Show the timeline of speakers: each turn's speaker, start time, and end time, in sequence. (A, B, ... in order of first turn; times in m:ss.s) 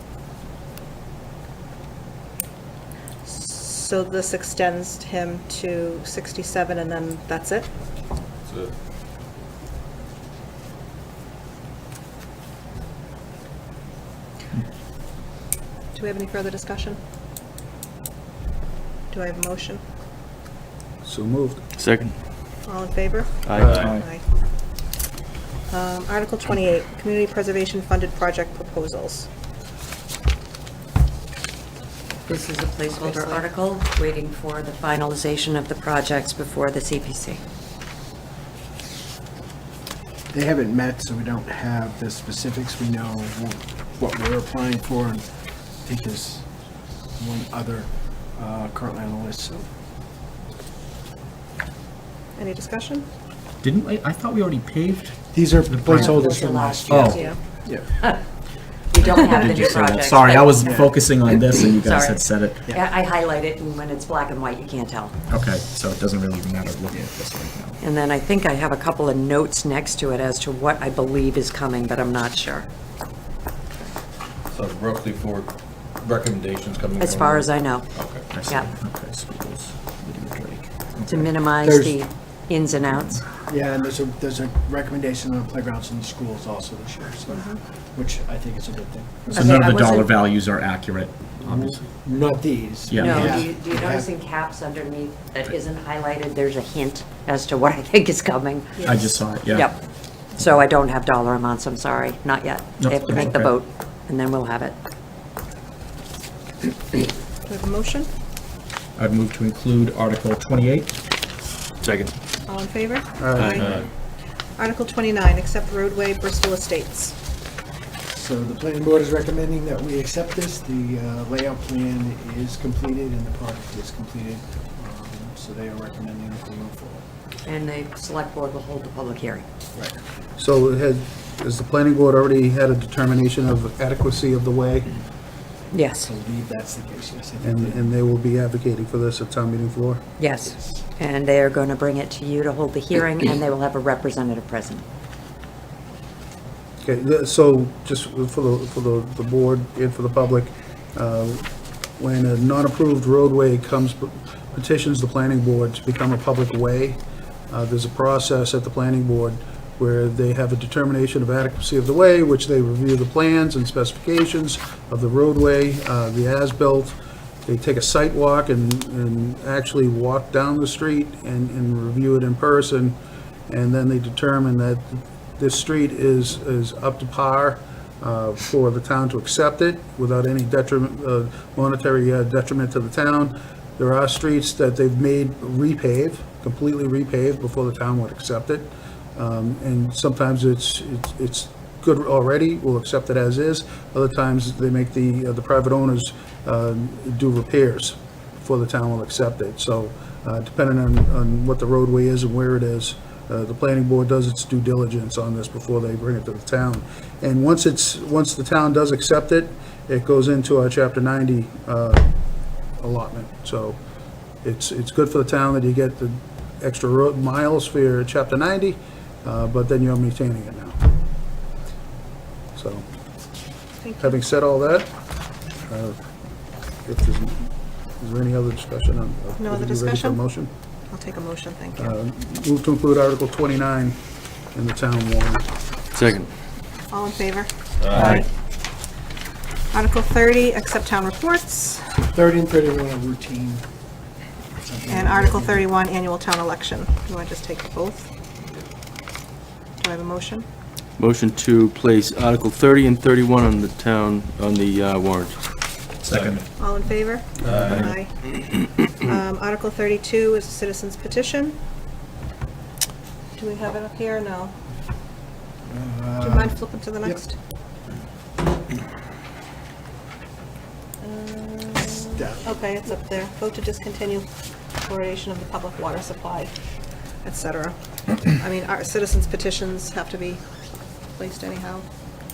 0:03.2-0:07.7 A
0:08.4-0:08.7 B
0:15.9-0:17.0 A
0:19.1-0:19.8 A
0:21.0-0:21.6 C
0:21.8-0:22.2 D
0:22.6-0:24.2 A
0:23.4-0:23.9 D
0:23.6-0:23.9 E
0:25.7-0:29.3 A
0:32.3-0:37.4 F
0:33.0-0:33.4 A
0:40.3-0:45.2 G
0:45.8-0:46.4 G
0:47.2-0:49.6 G
0:52.4-0:53.1 A
0:53.6-0:56.2 E
0:55.3-0:58.0 G
0:55.9-0:58.2 F
0:56.9-0:57.2 E
0:57.1-0:57.4 A
0:58.9-1:00.7 F
0:59.0-1:02.6 E
1:00.6-1:01.0 G
1:01.8-1:05.2 F
1:05.3-1:07.8 E
1:07.8-1:12.7 F
1:14.5-1:18.2 B
1:17.0-1:17.9 F
1:18.3-1:21.3 E
1:21.1-1:23.2 F
1:21.6-1:22.0 G
1:23.4-1:29.4 G
1:27.3-1:27.6 A
1:29.3-1:31.9 E
1:29.3-1:30.0 F
1:29.4-1:29.9 A
1:31.4-1:34.1 G
1:32.9-1:33.4 E
1:33.0-1:38.9 F
1:38.8-1:39.0 A
1:38.8-1:39.7 E
1:39.5-1:39.8 F
1:40.3-1:44.8 F
1:42.8-1:43.5 E
1:47.4-1:48.1 A
1:49.0-1:50.9 E
1:51.8-1:52.1 D
1:52.4-1:53.7 A
1:53.2-1:53.6 C
1:53.4-1:53.8 D
1:54.6-1:57.2 A
1:58.1-2:07.0 G
2:07.4-2:09.4 F
2:10.4-2:14.9 C
2:15.7-2:16.1 F
2:16.0-2:17.9 G
2:17.4-2:20.0 C
2:20.2-2:24.8 F
2:26.8-3:32.1 C
3:32.8-3:33.8 C
3:34.4-3:40.8 C
3:42.5-3:42.8 C
3:43.8-3:44.2 A
3:44.0-3:44.9 C
3:45.6-3:46.0 C
3:46.8-3:50.5 C
3:49.4-3:50.2 A
3:50.9-3:52.0 A
3:51.8-3:54.0 C
3:54.5-3:55.4 C
3:55.9-3:56.3 D
3:56.9-3:58.2 A
3:57.8-3:58.2 B
3:59.7-4:01.9 A
4:02.1-4:03.6 G
4:04.6-4:05.7 G
4:04.9-4:08.1 A
4:09.8-4:10.4 A
4:11.0-4:15.4 D
4:16.0-4:16.4 E
4:16.1-4:16.4 B
4:16.6-4:18.2 A
4:17.4-4:17.7 C
4:17.4-4:17.8 B
4:19.0-4:21.6 A
4:23.4-4:24.6 A
4:25.7-4:27.2 G
4:26.2-4:27.3 A
4:31.0-4:36.5 A
4:32.2-4:32.6 G
4:37.2-4:40.4 A
4:41.2-4:41.8 A